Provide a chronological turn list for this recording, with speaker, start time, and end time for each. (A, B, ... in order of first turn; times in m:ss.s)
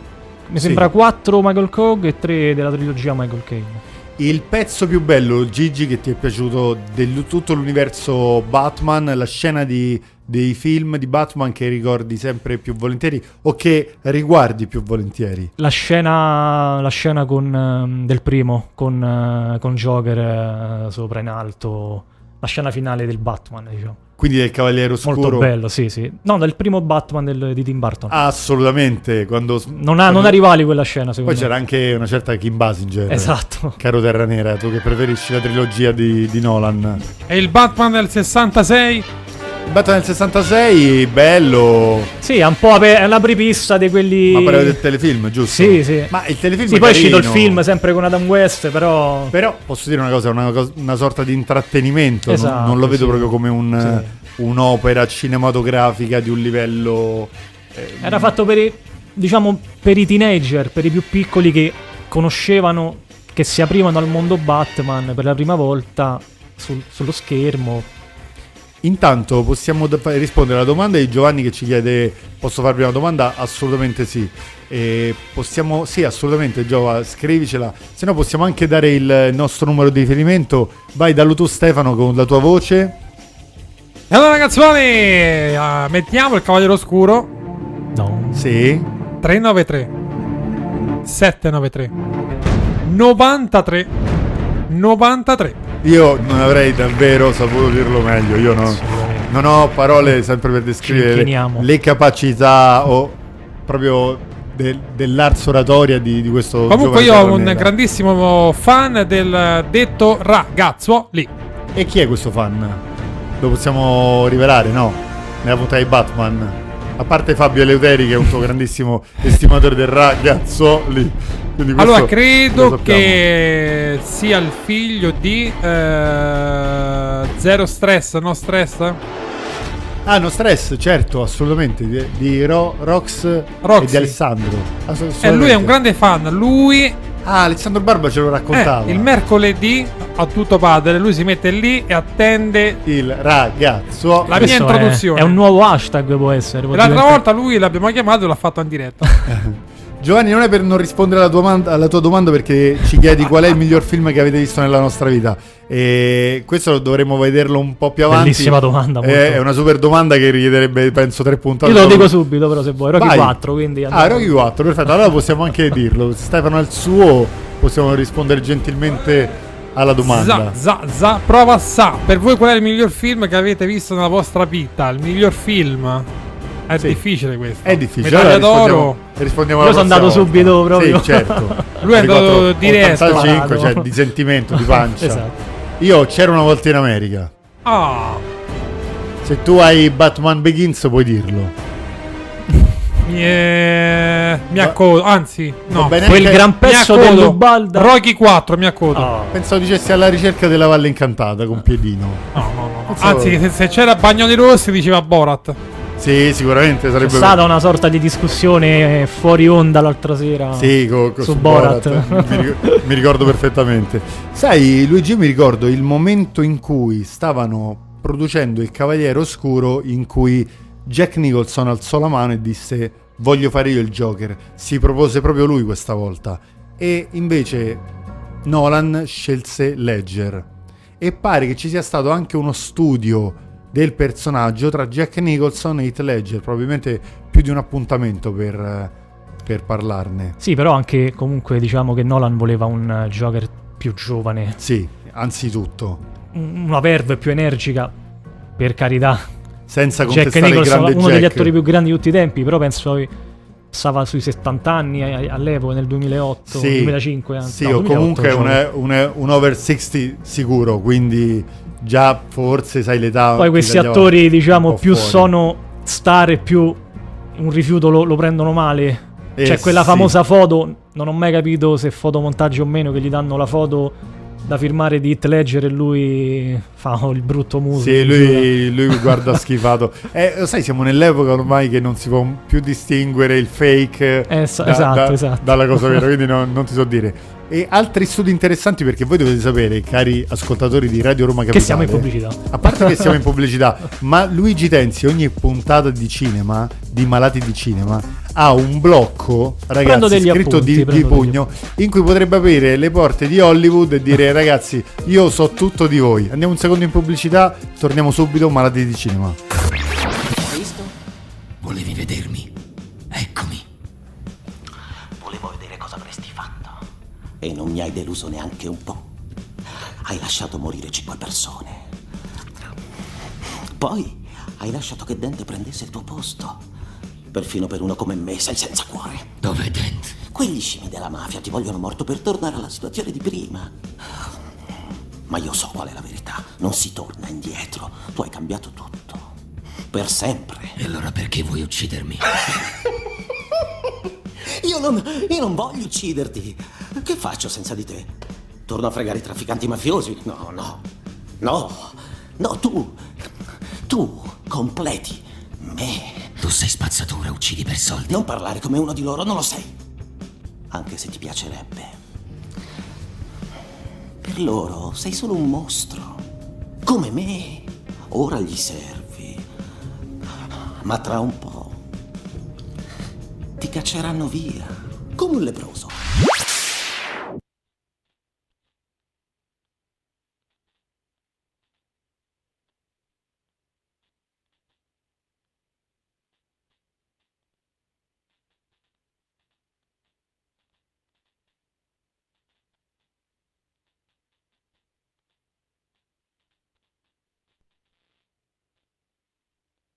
0:00.5-0:03.8 A
0:00.6-0:00.9 B
0:04.2-0:15.5 B
0:15.6-0:24.0 A
0:24.2-0:25.5 B
0:25.0-0:28.2 A
0:28.1-0:30.4 B
0:29.7-0:31.5 A
0:31.2-0:37.0 B
0:33.1-0:33.8 A
0:37.3-0:39.1 C
0:39.6-0:42.1 B
0:42.2-0:44.8 A
0:44.3-0:47.6 B
0:45.5-0:49.4 A
0:49.3-0:58.3 B
0:52.3-0:54.1 A
0:58.0-1:07.9 A
1:08.8-1:23.0 B
1:24.1-1:27.3 C
1:27.9-1:28.5 A
1:28.3-1:28.9 B
1:29.2-1:29.9 C
1:31.0-1:31.9 C
1:32.8-1:33.9 C
1:34.7-1:35.6 C
1:35.8-1:47.7 B
1:38.7-1:39.3 A
1:40.8-1:41.7 A
1:46.7-1:51.3 C
1:51.7-1:52.8 B
1:53.4-2:03.2 B
2:01.8-2:09.0 C
2:10.0-2:15.8 B
2:13.6-2:14.2 C
2:15.2-2:17.0 C
2:17.2-2:19.1 B
2:18.5-2:22.8 C
2:22.8-2:24.6 B
2:24.3-2:25.4 C
2:24.3-2:27.2 A
2:26.7-2:29.1 C
2:29.2-2:42.2 B
2:38.1-2:39.4 A
2:41.6-2:44.3 A
2:42.9-2:43.4 B
2:43.9-2:50.6 B
2:50.0-2:56.1 C
2:56.7-2:59.0 C
2:57.6-3:05.3 B
2:59.6-3:01.8 A
3:01.8-3:03.3 C
3:03.0-3:03.9 A
3:04.5-3:05.4 A
3:05.8-3:07.3 B
3:07.6-3:08.2 C
3:09.2-3:11.5 B
3:13.0-3:19.1 C
3:15.7-3:16.5 B
3:16.0-3:17.9 A
3:18.9-3:19.4 A
3:19.3-3:22.3 B
3:22.3-3:25.6 C
3:22.9-3:23.4 B
3:26.0-3:27.4 B
3:27.0-3:32.8 A
3:30.6-3:47.8 B
3:48.4-3:50.5 B
3:51.0-3:58.9 B
3:59.4-4:00.4 B
4:00.4-4:04.6 A
4:04.6-4:06.0 B
4:06.3-4:07.9 A
4:08.6-4:09.2 A
4:09.7-4:11.5 B
4:10.0-4:13.1 A
4:13.7-4:18.6 A
4:16.5-4:25.3 B
4:23.4-4:26.8 A
4:27.4-4:38.5 A
4:29.4-4:30.1 B
4:37.7-5:09.4 B
4:44.3-4:46.0 A
4:51.5-4:53.2 A
4:59.8-5:01.4 A
5:10.3-5:10.9 D
5:11.6-5:12.5 E
5:13.1-5:13.6 E
5:15.2-5:16.7 D
5:17.4-5:19.1 D
5:20.0-5:21.8 D
5:23.8-5:26.6 D
5:27.3-5:29.3 D
5:29.4-5:30.2 E
5:30.2-5:33.7 D
5:35.3-5:39.3 D
5:39.9-5:40.7 D
5:40.8-5:42.2 E
5:44.4-5:48.1 D
5:48.6-5:50.8 D
5:51.4-5:53.0 D
5:53.8-5:56.3 D
5:56.4-5:58.2 E
5:58.1-5:59.7 D
6:00.7-6:02.0 D
6:04.2-6:06.2 D
6:06.8-6:09.4 D
6:10.8-6:11.8 D
6:13.6-6:16.0 D